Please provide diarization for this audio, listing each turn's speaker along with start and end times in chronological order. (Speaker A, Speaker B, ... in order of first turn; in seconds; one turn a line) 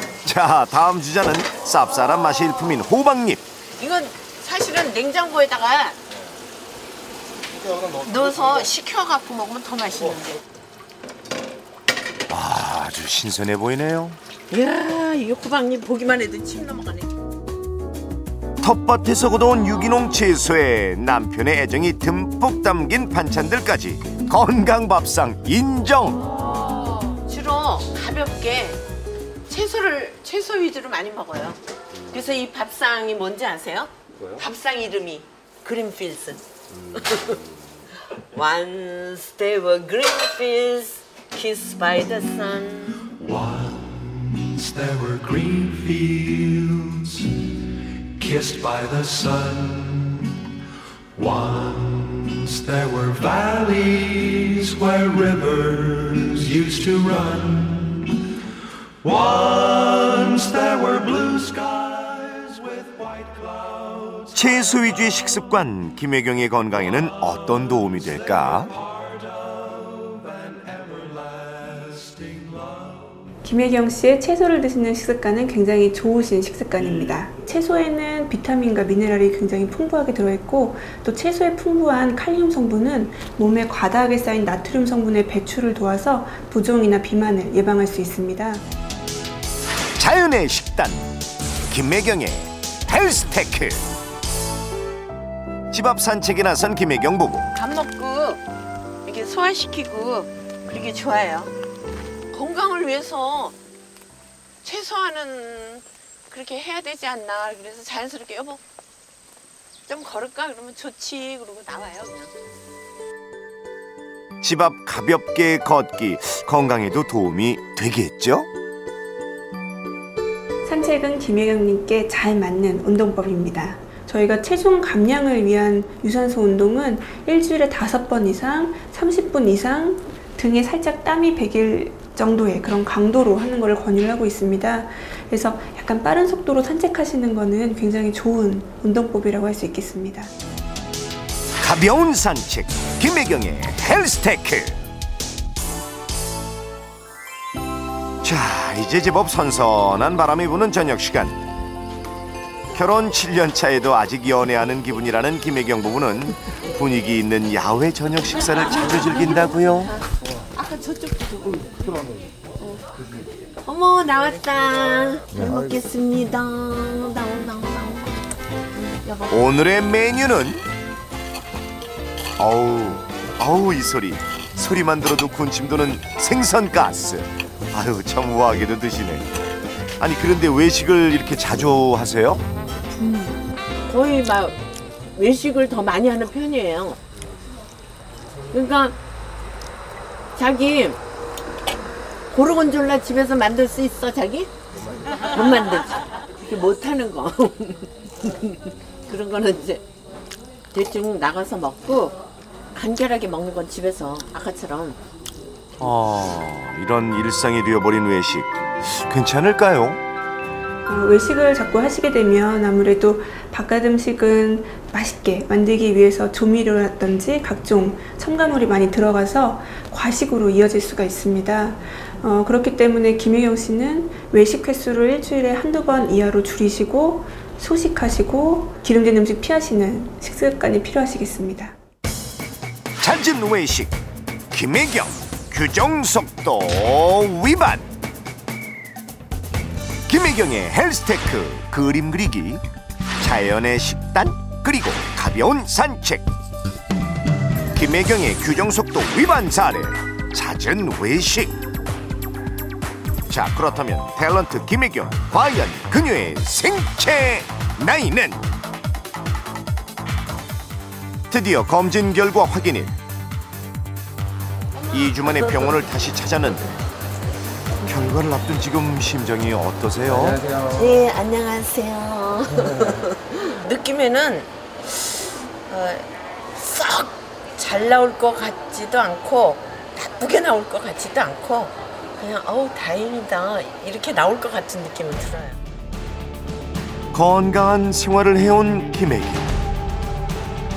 Speaker A: 0.2-3.4
Speaker B: 3.8-6.0
Speaker C: 7.5-8.7
Speaker B: 8.0-10.4
Speaker A: 12.3-14.2
Speaker B: 14.5-17.1
Speaker A: 18.6-26.2
Speaker B: 26.2-28.8
Speaker B: 29.5-37.4
Speaker B: 38.3-43.1
Speaker D: 43.1-50.5
Speaker D: 51.1-58.3
Speaker D: 59.0-64.3
Speaker A: 64.3-68.7
Speaker D: 68.7-73.1
Speaker E: 73.4-88.6
Speaker A: 90.0-91.1
Speaker A: 91.7-93.8
Speaker A: 95.7-97.5
Speaker B: 97.5-98.4
Speaker B: 99.0-101.5
Speaker B: 102.3-103.5
Speaker B: 104.6-108.6
Speaker B: 109.9-112.3
Speaker A: 114.4-118.5
Speaker E: 120.6-140.3
Speaker A: 141.6-144.8
Speaker A: 148.2-151.4
Speaker A: 152.7-159.9
Speaker B: 160.5-161.7
Speaker C: 161.7-162.3
Speaker C: 163.0-163.3
Speaker B: 163.6-169.4
Speaker A: 169.3-170.6
Speaker A: 172.4-179.3
Speaker A: 180.0-182.4
Speaker B: 183.0-183.3
Speaker B: 183.8-184.6
Speaker B: 185.1-187.0
Speaker B: 188.5-189.0
Speaker B: 190.3-191.0
Speaker B: 192.3-194.5
Speaker B: 195.3-199.8
Speaker B: 200.7-202.2
Speaker B: 202.7-205.0
Speaker A: 205.8-210.0
Speaker E: 210.8-231.7
Speaker A: 233.0-233.9
Speaker A: 234.5-237.9
Speaker A: 240.1-242.6
Speaker A: 243.2-246.2
Speaker A: 247.7-251.5
Speaker A: 253.3-258.4
Speaker A: 261.3-262.9
Speaker A: 264.9-266.7
Speaker B: 264.9-265.6
Speaker A: 267.8-270.5
Speaker B: 270.6-285.6
Speaker A: 287.1-289.5